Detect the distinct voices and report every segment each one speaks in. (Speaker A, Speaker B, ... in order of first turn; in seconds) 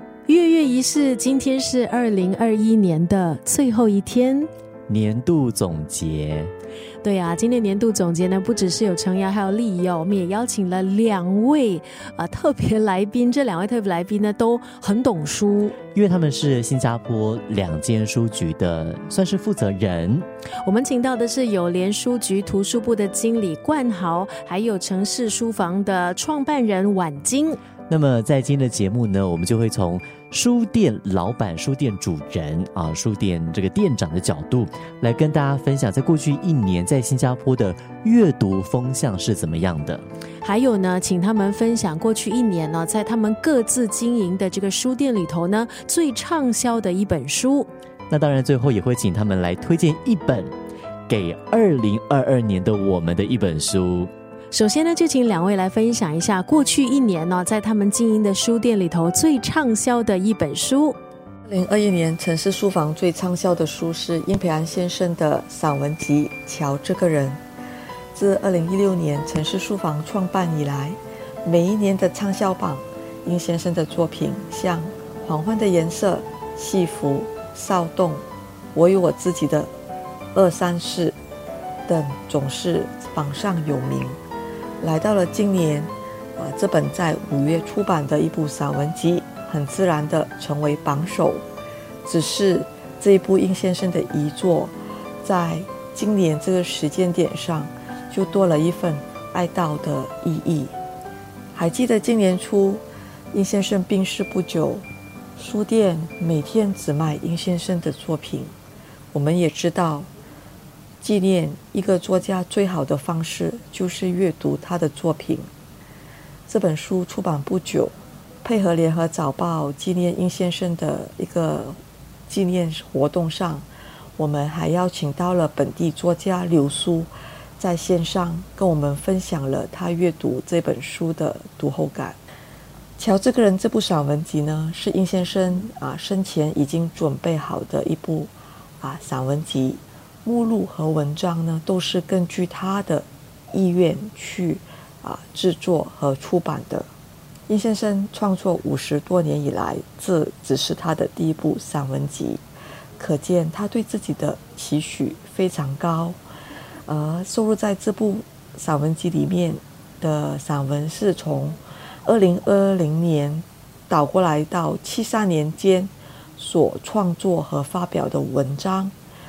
Speaker A: 0.3-4.5, 7.0-15.8, 20.6-27.6, 40.4-47.7, 54.5-61.0
Speaker B: 4.9-6.5, 15.9-20.3, 27.9-40.0, 48.1-50.5, 51.1-54.1
Speaker C: 61.5-67.4, 68.2-79.7, 80.3-81.2, 81.9-84.2, 84.8-91.5, 92.1-100.8, 101.6-108.5, 109.1-110.1, 111.0-115.5, 116.5-123.7, 124.2-132.2, 133.0-146.9, 147.5-152.4, 153.0-156.2, 156.9-168.9